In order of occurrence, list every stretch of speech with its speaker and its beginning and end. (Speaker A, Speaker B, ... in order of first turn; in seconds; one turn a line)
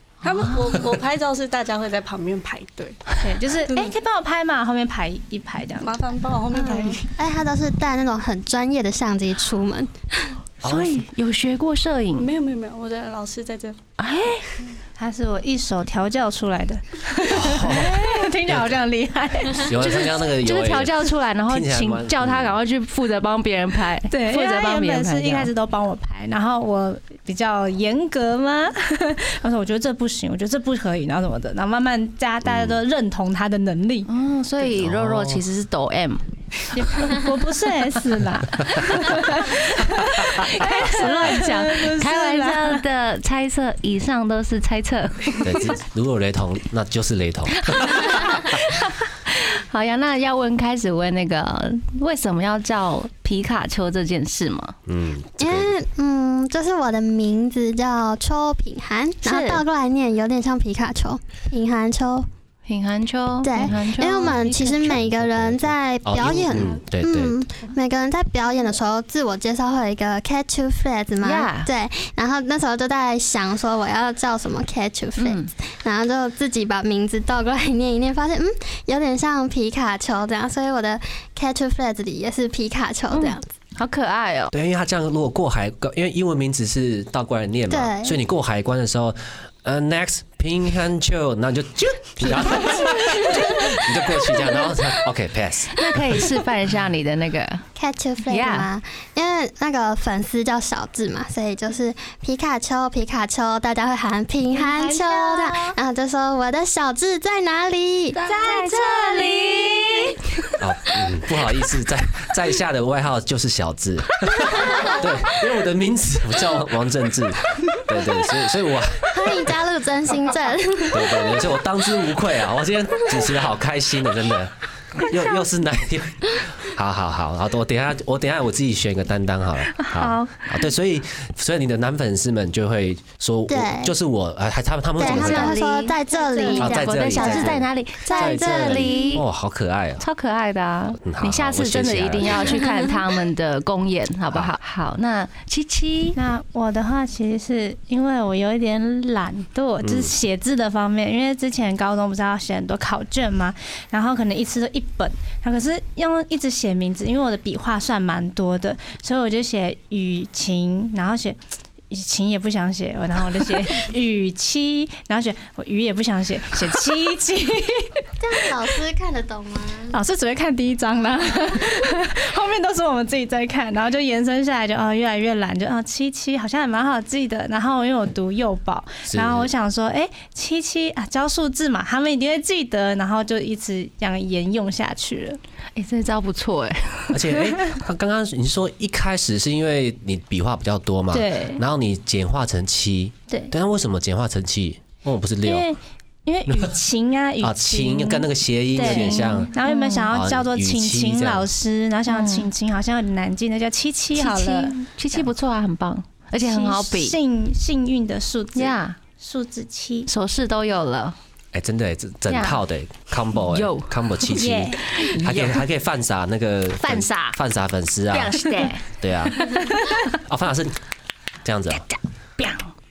Speaker A: 0.2-3.0
Speaker B: 3.2-5.9
Speaker A: 5.8-7.1
Speaker C: 6.5-10.4
Speaker D: 10.6-11.0
Speaker E: 10.6-12.3
Speaker A: 12.2-13.8
Speaker E: 14.0-14.6
Speaker B: 15.0-20.1
Speaker D: 17.3-18.7
Speaker D: 19.6-22.6
Speaker E: 20.4-25.5
Speaker B: 24.1-34.1
Speaker D: 32.5-32.8
Speaker E: 34.1-36.2
Speaker D: 34.8-35.4
Speaker B: 36.7-42.8
Speaker E: 40.4-45.5
Speaker D: 45.4-48.6
Speaker E: 47.7-54.8
Speaker D: 54.9-55.7
Speaker C: 55.4-62.3
Speaker E: 59.2-59.6
Speaker E: 62.7-65.0
Speaker C: 63.4-83.5
Speaker D: 64.2-67.4
Speaker E: 71.2-71.7
Speaker E: 75.2-75.5
Speaker E: 83.1-84.5
Speaker D: 84.5-96.2
Speaker C: 87.7-88.2
Speaker E: 95.8-97.6
Speaker C: 97.8-108.2
Speaker E: 98.3-98.7
Speaker B: 104.5-105.6
Speaker E: 108.2-110.3
Speaker B: 108.3-108.9
Speaker D: 110.6-119.4
Speaker C: 119.1-121.4
Speaker D: 120.9-135.6
Speaker E: 130.0-130.3
Speaker C: 133.5-133.9
Speaker C: 135.0-139.2
Speaker E: 135.0-139.2
Speaker B: 136.2-136.5
Speaker D: 136.6-140.0
Speaker E: 140.0-146.2
Speaker D: 141.0-142.7
Speaker D: 144.3-144.6
Speaker B: 146.2-161.4
Speaker D: 149.8-150.1
Speaker B: 161.9-168.1
Speaker C: 168.2-170.0
Speaker B: 169.9-185.4
Speaker D: 179.1-179.5
Speaker E: 185.8-187.4
Speaker D: 187.1-195.7
Speaker B: 191.1-191.6
Speaker B: 195.4-205.3
Speaker D: 197.4-199.5
Speaker E: 198.8-200.1
Speaker D: 200.1-201.5
Speaker E: 202.1-202.5
Speaker E: 204.2-207.2
Speaker B: 206.4-210.1
Speaker E: 208.6-209.0
Speaker E: 210.1-211.2
Speaker D: 211.5-220.8
Speaker E: 212.3-212.6
Speaker E: 213.4-214.0
Speaker B: 214.3-214.9
Speaker E: 215.0-215.4
Speaker E: 216.8-217.4
Speaker E: 218.1-218.9
Speaker D: 221.4-221.8
Speaker E: 222.4-222.7